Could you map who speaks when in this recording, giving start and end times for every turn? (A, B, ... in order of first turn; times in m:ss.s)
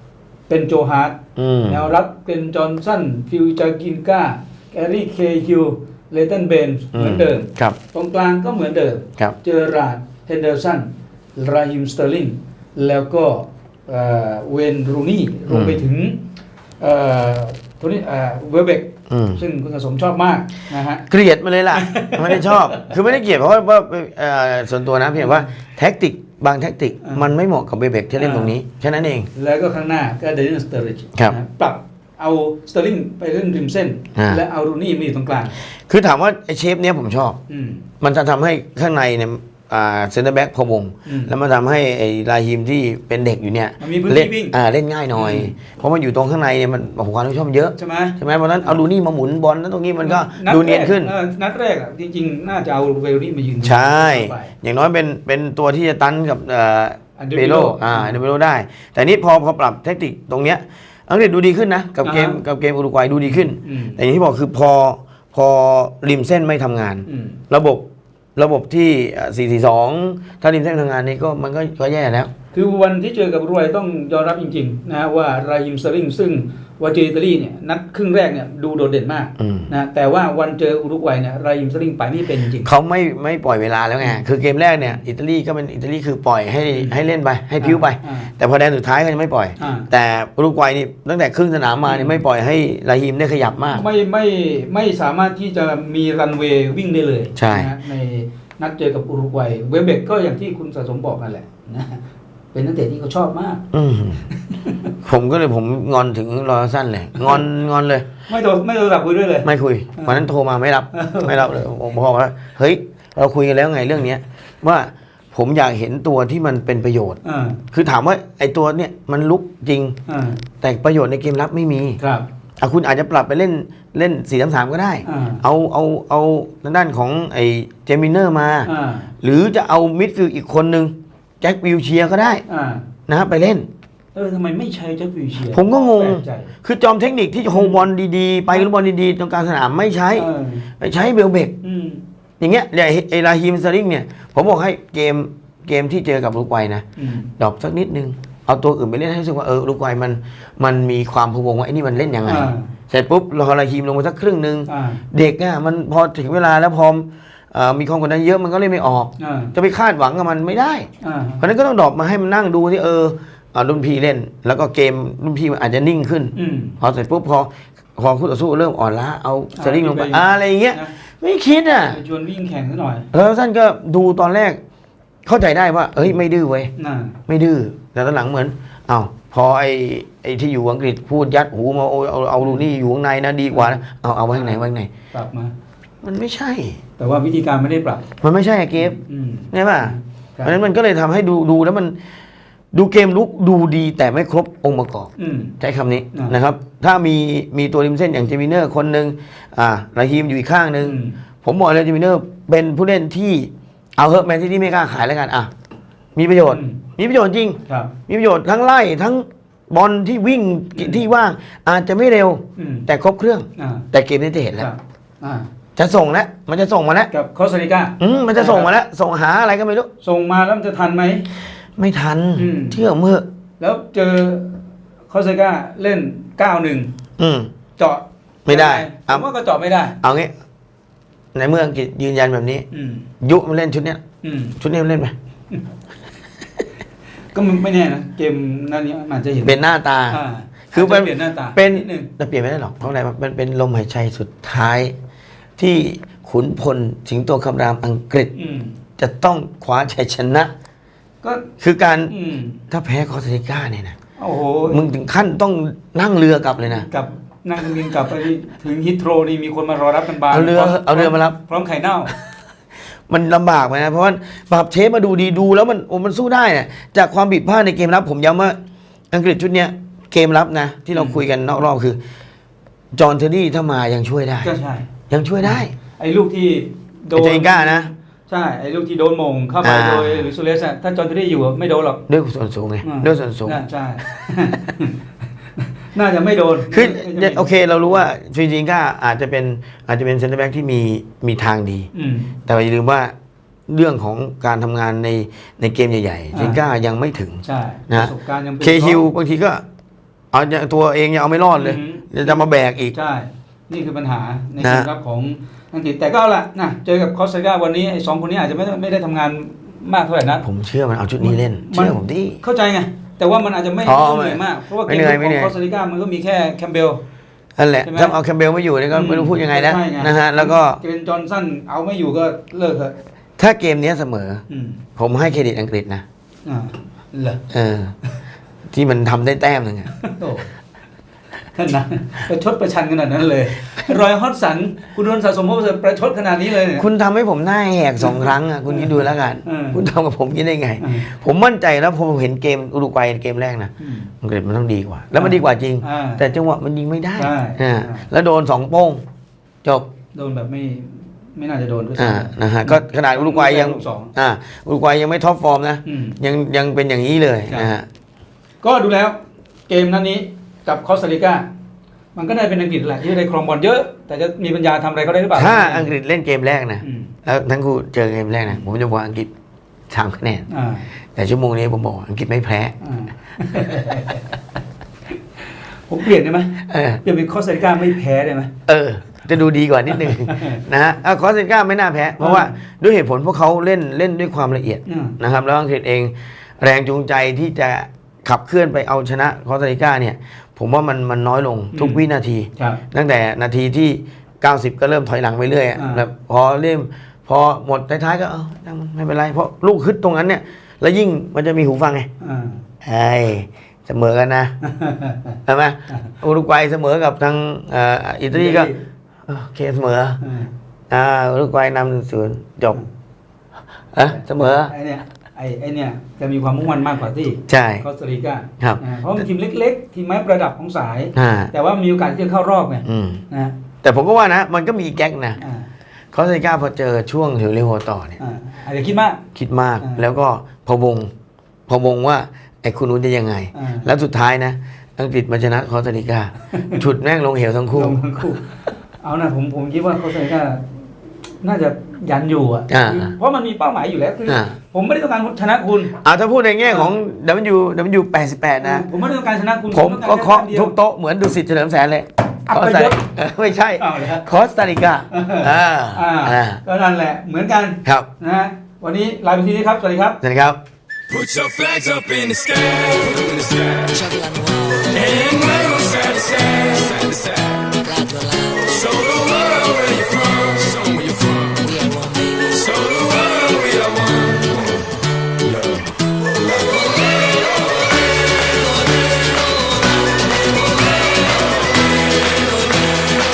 0:00.5-0:16.2 A
0:01.4-0:01.9 B
0:06.9-0:07.8 B
0:15.5-0:15.9 B
0:16.8-0:21.0 A
0:19.1-0:19.4 B
0:21.0-0:29.3 B
0:21.7-0:22.9 A
0:25.2-0:25.5 A
0:27.0-0:27.3 A
0:28.2-0:28.5 A
0:29.3-0:35.6 A
0:34.1-0:34.4 B
0:35.9-0:37.4 B
0:37.5-0:37.8 A
0:38.0-0:51.1 B
0:41.0-0:41.3 A
0:43.8-0:44.6 A
0:45.1-0:45.5 A
0:47.8-0:48.8 A
0:50.0-0:54.5 A
0:53.6-1:12.3 B
0:57.2-0:58.2 A
1:02.0-1:02.4 A
1:03.2-1:04.0 A
1:07.0-1:07.4 A
1:12.5-1:22.7 A
1:19.4-1:19.7 B
1:22.6-1:33.8 B
1:26.7-1:27.0 A
1:27.6-1:28.3 A
1:29.6-1:29.9 A
1:31.8-1:32.2 A
1:33.7-1:42.0 A
1:37.4-1:37.7 B
1:42.5-1:43.6 A
1:43.7-1:44.2 B
1:44.3-1:44.9 A
1:45.0-1:48.0 B
1:48.3-1:50.2 A
1:49.4-1:57.2 B
1:50.9-1:51.6 A
1:57.2-1:57.6 A
1:57.7-2:00.0 B
2:00.1-2:00.4 A
2:00.6-2:02.0 B
2:02.0-2:02.3 A
2:02.6-2:08.7 B
2:05.0-2:05.4 A
2:08.6-2:09.1 A
2:09.2-2:12.4 B
2:12.5-2:12.9 A
2:13.1-2:13.7 B
2:14.1-2:16.5 A
2:15.4-2:20.3 B
2:17.5-2:17.9 A
2:20.2-2:20.7 A
2:20.8-2:21.5 B
2:21.6-2:22.0 A
2:22.4-2:26.8 B
2:27.0-2:27.3 A
2:27.4-2:40.9 B
2:32.2-2:32.7 A
2:34.7-2:35.0 A
2:39.2-2:39.5 A
2:41.0-2:41.4 A
2:41.4-2:52.0 B
2:46.3-2:46.8 A
2:49.6-2:50.9 A
2:51.8-2:53.1 A
2:53.1-2:54.6 B
2:55.2-2:56.7 B
2:56.8-2:57.2 A
2:57.3-3:04.9 B
3:02.4-3:02.6 A
3:03.5-3:03.8 A
3:04.3-3:04.6 A
3:05.1-3:05.5 A
3:06.0-3:06.8 B
3:07.0-3:08.1 A
3:08.2-3:09.0 B
3:08.8-3:10.6 A
3:09.5-3:12.0 B
3:12.7-3:25.5 B
3:15.2-3:15.5 A
3:20.8-3:21.2 A
3:26.1-3:34.7 B
3:26.5-3:26.8 A
3:27.7-3:27.9 A
3:30.7-3:31.0 A
3:32.6-3:32.9 A
3:33.6-3:33.9 A
3:34.6-3:35.5 A
3:35.8-3:37.1 B
3:37.1-3:38.7 A
3:38.0-3:39.9 B
3:40.0-3:41.3 A
3:41.8-3:43.3 B
3:42.4-3:42.8 A
3:43.6-3:46.9 A
3:47.2-3:47.5 B
3:47.8-3:50.0 A
3:48.4-3:49.3 B
3:50.0-3:50.3 B
3:51.3-3:52.7 B
3:52.7-3:53.1 A
3:53.2-3:54.0 B
3:54.2-3:54.6 A
3:54.6-3:55.1 B
3:57.3-4:02.1 A
3:59.4-4:05.0 B
4:05.6-4:08.3 B
4:08.3-4:08.7 A
4:09.0-4:10.5 B
4:11.2-4:11.5 A
4:11.6-4:12.1 B
4:12.1-4:12.6 A
4:12.7-4:14.0 B
4:14.2-4:14.8 A
4:14.7-4:16.9 B
4:16.6-4:22.1 A
4:20.3-4:21.4 B
4:23.1-4:28.6 B
4:29.1-4:32.0 B
4:30.9-4:31.2 A
4:32.9-4:34.5 B
4:34.4-4:34.8 A
4:35.1-4:35.7 B
4:35.4-4:42.0 A
4:37.1-4:37.9 B
4:39.6-4:40.3 B
4:42.1-4:43.6 B
4:42.8-4:45.0 A
4:45.6-4:48.0 A
4:46.7-4:51.9 B
4:51.9-4:52.3 A
4:52.4-4:53.1 B
4:53.7-4:59.6 B
4:56.3-4:56.6 A
4:57.4-4:59.0 A
5:00.3-5:02.9 B
5:01.5-5:10.4 A
5:04.6-5:04.9 B
5:10.4-5:12.4 B
5:11.2-5:17.0 A
5:13.8-5:15.5 B
5:17.6-5:20.8 B
5:17.8-5:18.2 A
5:18.9-5:22.9 A
5:23.4-5:24.4 B
5:24.5-5:24.8 A
5:25.0-5:26.0 B
5:26.4-5:27.4 A
5:27.5-5:27.9 B
5:28.7-5:29.9 B
5:29.9-5:30.5 A
5:31.5-5:36.8 A
5:36.7-5:49.0 B
5:38.0-5:39.8 A
5:40.8-5:41.1 A
5:43.8-5:44.1 A
5:45.1-5:46.2 A
5:47.2-5:48.1 A
5:49.6-5:49.9 B
5:50.1-5:54.1 A
5:52.0-5:57.8 B
5:55.8-5:56.2 A
5:57.5-5:57.7 A
5:58.6-6:01.5 A
6:02.1-6:05.9 A
6:05.3-6:09.3 B
6:06.8-6:07.1 A
6:09.9-6:10.4 B
6:10.5-6:10.8 A
6:11.2-6:12.7 B
6:12.8-6:14.3 A
6:15.9-6:18.5 A
6:16.7-6:17.0 B
6:18.7-6:42.1 B
6:19.9-6:20.6 A
6:22.2-6:22.5 A
6:24.9-6:25.2 A
6:31.7-6:32.0 A
6:35.7-6:36.0 A
6:42.2-6:42.6 A
6:42.8-6:44.5 B
6:44.6-6:45.4 A
6:45.5-6:48.7 B
6:48.3-6:48.8 A
6:49.2-6:50.2 B
6:50.2-6:50.5 A
6:50.9-6:52.8 B
6:53.9-6:54.7 B
6:54.0-7:03.6 A
6:57.5-6:57.8 B
7:01.1-7:01.5 B
7:02.8-7:03.2 B
7:03.8-7:05.4 B
7:05.4-7:05.7 A
7:06.1-7:08.2 B
7:08.2-7:09.2 A
7:09.3-7:11.1 B
7:11.7-7:18.0 B
7:13.5-7:13.9 A
7:17.7-7:20.7 A
7:21.4-7:26.0 A
7:22.7-7:23.1 B
7:24.3-7:24.5 B
7:26.0-7:28.8 B
7:28.6-7:30.8 A
7:29.7-7:36.6 B
7:32.4-7:33.0 A
7:33.8-7:34.2 A
7:35.1-7:40.2 A
7:40.2-7:40.6 B
7:41.1-7:44.1 C
7:44.0-7:44.9 D
7:44.9-7:47.8 C
7:47.8-7:48.5 D
7:48.5-7:51.6 C
7:51.7-7:52.4 D
7:52.4-7:54.8 C
7:55.4-7:55.9 C